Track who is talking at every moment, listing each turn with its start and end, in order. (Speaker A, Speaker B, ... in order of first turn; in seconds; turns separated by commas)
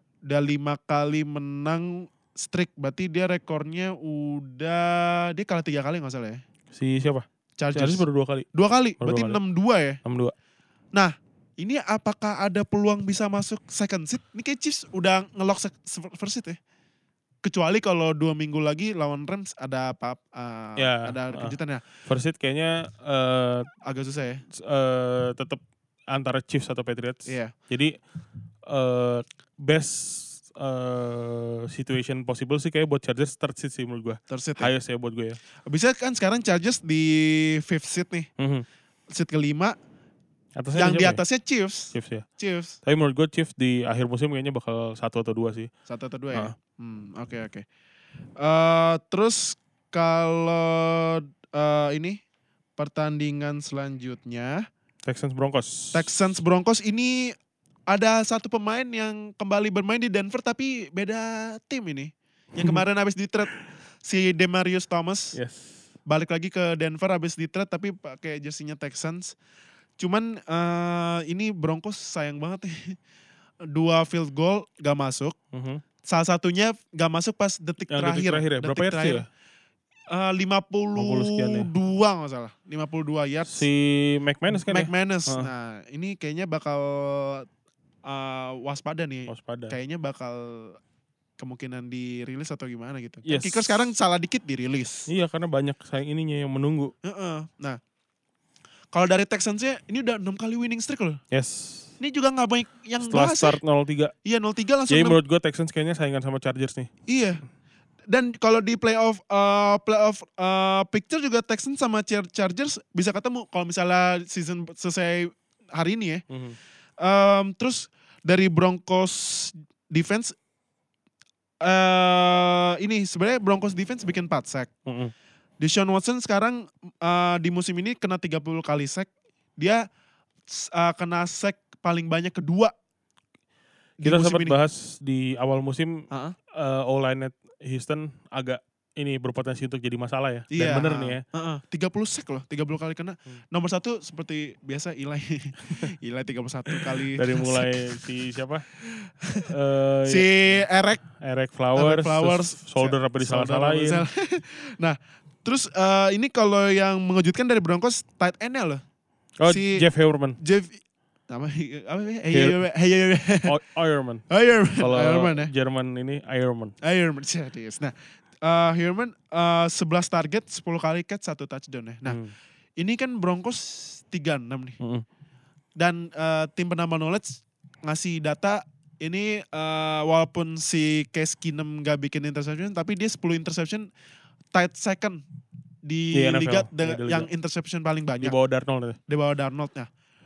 Speaker A: 0.3-6.4, Speaker B: 6.7-8.5, Speaker A: 7.6-10.0, Speaker B: 9.0-9.4, Speaker B: 10.0-10.3, Speaker A: 10.9-16.6, Speaker A: 17.4-21.8, Speaker B: 20.8-23.7, Speaker A: 23.9-24.4, Speaker B: 24.5-27.9, Speaker A: 27.3-27.5, Speaker B: 28.7-35.4, Speaker A: 34.3-34.7, Speaker A: 35.7-38.3, Speaker B: 38.4-38.7, Speaker A: 39.1-39.8, Speaker B: 40.6-41.2, Speaker A: 40.8-42.8, Speaker B: 41.9-42.2, Speaker B: 42.9-45.7, Speaker A: 45.9-47.6, Speaker A: 48.4-52.2, Speaker A: 52.8-54.7, Speaker B: 55.0-56.1, Speaker A: 55.9-57.4, Speaker A: 57.9-63.5, Speaker A: 64.0-65.4, Speaker B: 65.3-65.8, Speaker A: 66.1-69.3, Speaker A: 70.0-73.0, Speaker A: 73.7-75.4, Speaker B: 75.5-75.8, Speaker A: 76.0-79.2, Speaker B: 77.9-79.3, Speaker A: 80.1-83.7, Speaker B: 81.0-81.7, Speaker B: 83.5-85.5, Speaker A: 84.5-87.5, Speaker A: 88.0-90.8, Speaker B: 89.3-89.8, Speaker A: 91.4-95.1, Speaker B: 93.3-93.9, Speaker B: 95.1-96.9, Speaker A: 97.0-97.8, Speaker A: 98.9-101.2, Speaker B: 101.3-101.9, Speaker A: 102.0-103.6, Speaker B: 103.0-104.1, Speaker A: 104.2-105.2, Speaker B: 104.9-106.9, Speaker A: 107.1-107.4, Speaker A: 108.1-116.2, Speaker B: 116.3-116.6, Speaker A: 117.0-120.3, Speaker A: 121.6-124.7, Speaker B: 124.9-125.1, Speaker A: 125.6-129.8, Speaker A: 130.5-132.7, Speaker A: 134.0-134.6, Speaker B: 134.0-141.2, Speaker A: 140.5-148.0, Speaker B: 146.7-148.7, Speaker A: 148.9-149.5, Speaker B: 149.5-150.3, Speaker A: 150.1-151.0, Speaker B: 151.2-154.1, Speaker A: 151.8-158.8, Speaker B: 159.4-160.4, Speaker A: 159.5-159.8, Speaker A: 160.4-163.5, Speaker B: 162.3-162.6, Speaker B: 163.5-164.2, Speaker A: 164.3-165.5, Speaker B: 164.8-166.8, Speaker A: 166.8-172.2, Speaker B: 172.1-172.3, Speaker A: 172.8-174.8, Speaker A: 175.8-183.9, Speaker A: 184.5-185.2, Speaker A: 185.8-188.3, Speaker B: 186.1-187.3, Speaker B: 188.2-189.0, Speaker A: 189.1-189.9